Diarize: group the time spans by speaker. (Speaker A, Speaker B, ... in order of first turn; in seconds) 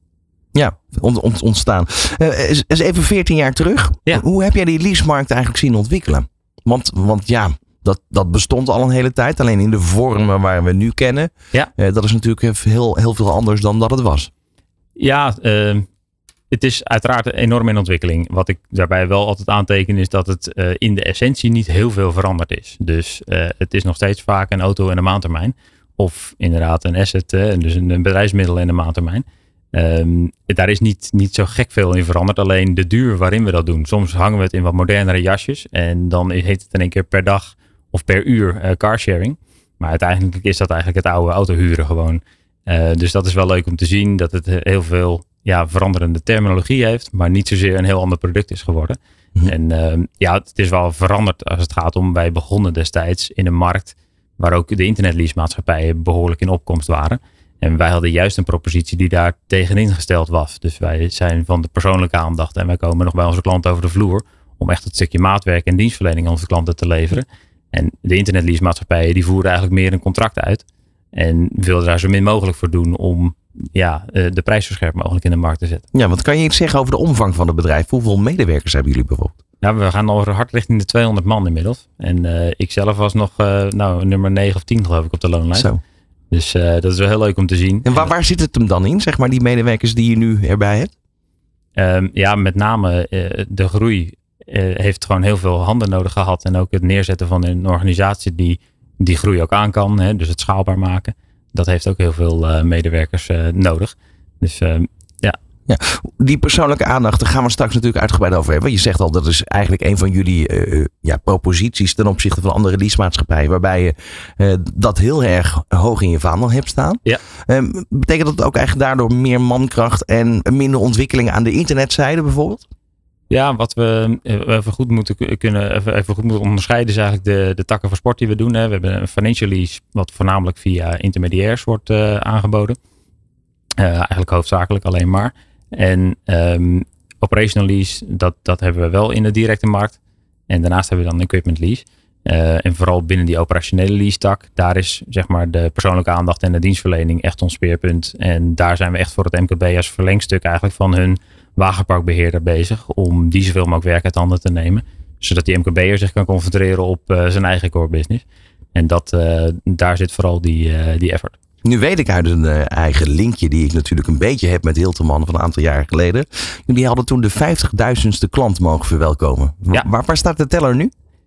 Speaker A: 0.5-14.3, 75.9-79.3, 85.5-85.8, 87.8-90.9, 105.7-122.7, 161.6-170.9
Speaker B: 15.0-15.9, 16.5-75.9, 79.6-85.7, 86.3-88.1, 91.8-105.4, 123.3-132.8, 133.8-140.0, 140.5-158.2, 158.8-161.4